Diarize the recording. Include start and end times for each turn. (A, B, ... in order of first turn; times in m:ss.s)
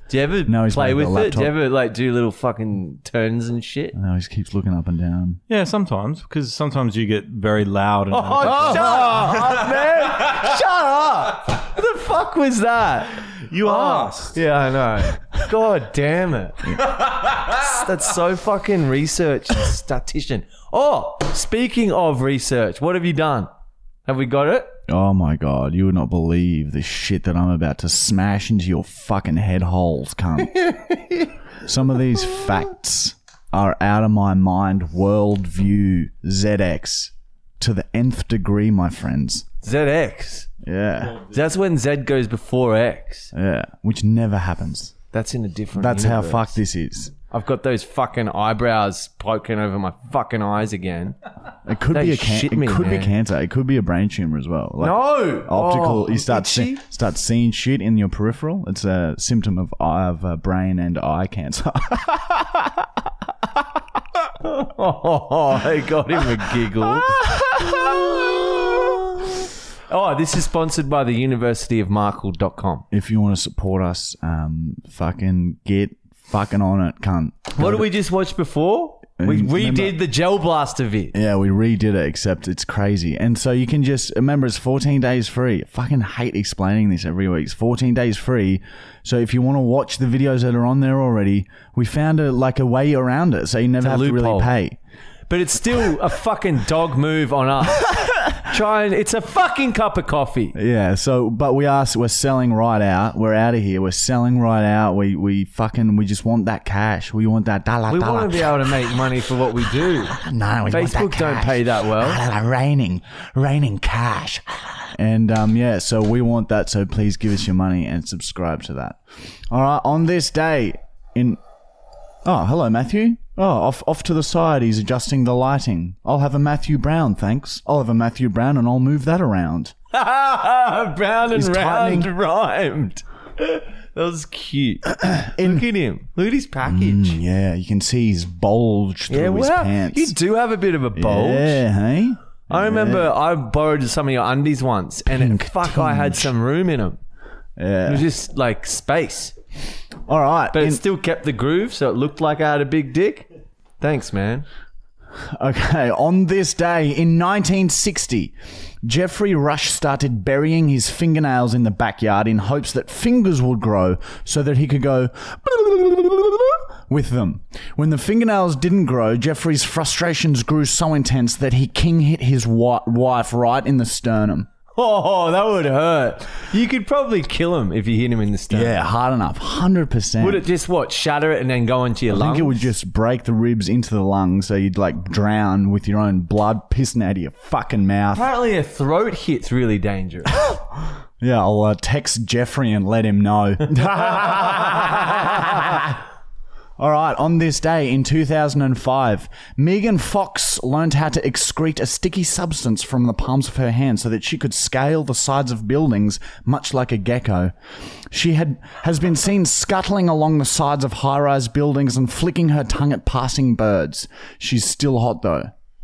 0:00.1-0:04.0 A
0:00.5-0:01.6 B
0:03.9-0:05.4 B
0:05.5-0:09.8 C
0:08.1-0:16.8 A
0:08.4-0:09.1 B
0:13.4-0:14.4 C
0:17.5-0:23.5 A
0:24.1-0:24.8 A
0:24.9-0:30.6 B
0:30.7-0:31.2 A
0:31.6-0:39.5 B
0:39.6-0:40.5 A
0:40.6-0:41.2 B
0:41.3-0:43.3 A
0:43.3-0:45.0 B
0:45.1-0:46.6 A
0:45.7-0:47.2 B
0:47.3-0:51.2 A
0:51.6-1:02.9 B
0:51.9-0:53.2 A
0:54.8-0:56.8 A
1:04.4-1:08.3 A
1:07.2-1:07.9 B
1:09.9-1:12.9 A
1:12.9-1:17.9 B
1:17.6-1:21.2 A
1:19.2-1:20.0 B
1:21.1-1:34.8 B
1:33.8-1:34.5 A
1:35.3-1:40.6 A
1:40.5-1:48.6 B
1:47.9-1:52.2 A
1:50.1-2:01.4 B
2:02.2-2:09.7 B
2:09.9-2:17.2 A
2:11.3-2:12.1 B
2:15.2-2:15.7 B
2:16.6-2:20.2 B
2:19.1-2:21.6 A
2:21.0-2:23.1 B
2:22.5-2:27.0 A
2:25.1-2:26.3 B
2:27.6-2:28.1 B
2:27.9-2:29.4 A
2:30.1-2:30.8 B
2:30.5-2:33.3 A
2:33.8-2:34.5 A
2:35.3-2:54.5 B
2:54.7-2:58.8 A
2:58.5-3:00.4 B
3:00.2-3:02.7 A
3:02.1-3:08.3 B
3:08.1-3:10.4 A
3:10.4-3:10.6 B
3:11.2-3:16.0 B
3:16.8-3:27.5 B
3:28.1-3:35.5 B